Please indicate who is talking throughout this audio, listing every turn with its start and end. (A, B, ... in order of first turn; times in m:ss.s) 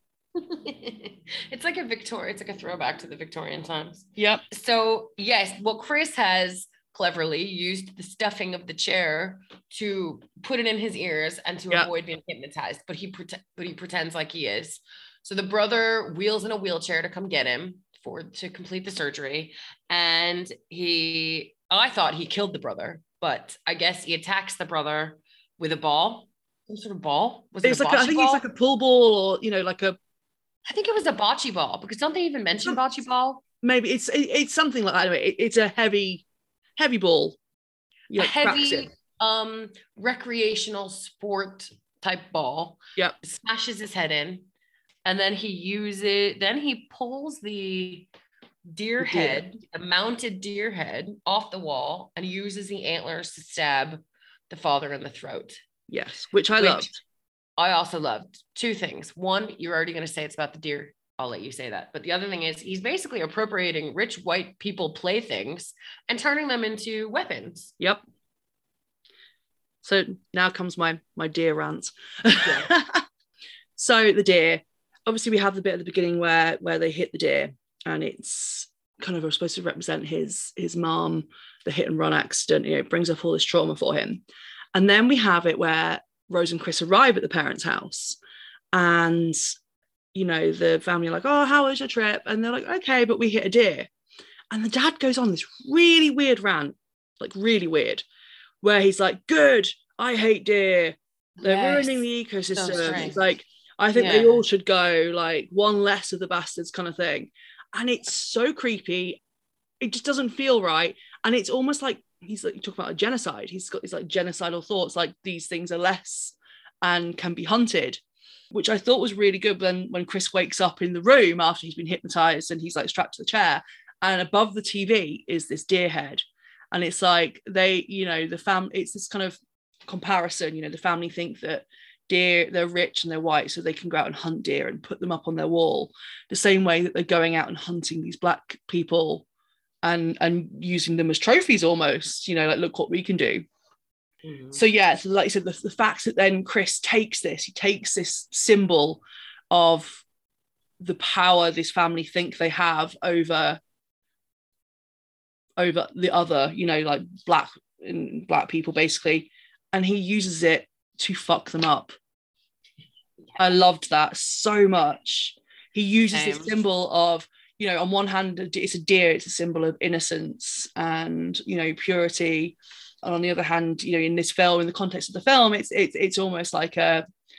0:00.4-0:28.4 A
0:04.2-0:04.4 B
0:27.6-0:30.0 B
0:30.7-0:33.4 A
0:33.6-0:36.3 B
0:36.8-0:37.4 B
0:38.1-0:38.9 B
0:38.2-0:44.5 A
0:45.0-0:48.1 A
0:48.7-0:55.6 A
0:49.0-0:49.4 B
0:55.9-0:57.0 B
0:56.6-0:56.9 A
0:57.6-1:07.7 A
1:09.8-1:13.0 B
1:12.4-1:12.7 A
1:13.8-1:24.2 B
1:24.7-1:28.2 B
1:28.7-1:29.4 B
1:30.1-1:33.9 B
1:34.5-1:38.0 B
1:38.6-1:49.2 B
1:41.4-1:43.2 A
1:43.9-1:44.4 A
1:49.8-1:58.0 B
1:58.5-2:19.2 B
2:19.8-2:23.4 B
2:24.2-2:24.6 A
2:24.5-2:30.0 B
2:30.8-2:33.6 B
2:35.6-2:41.9 B
2:43.4-2:57.0 B
2:46.1-2:46.6 A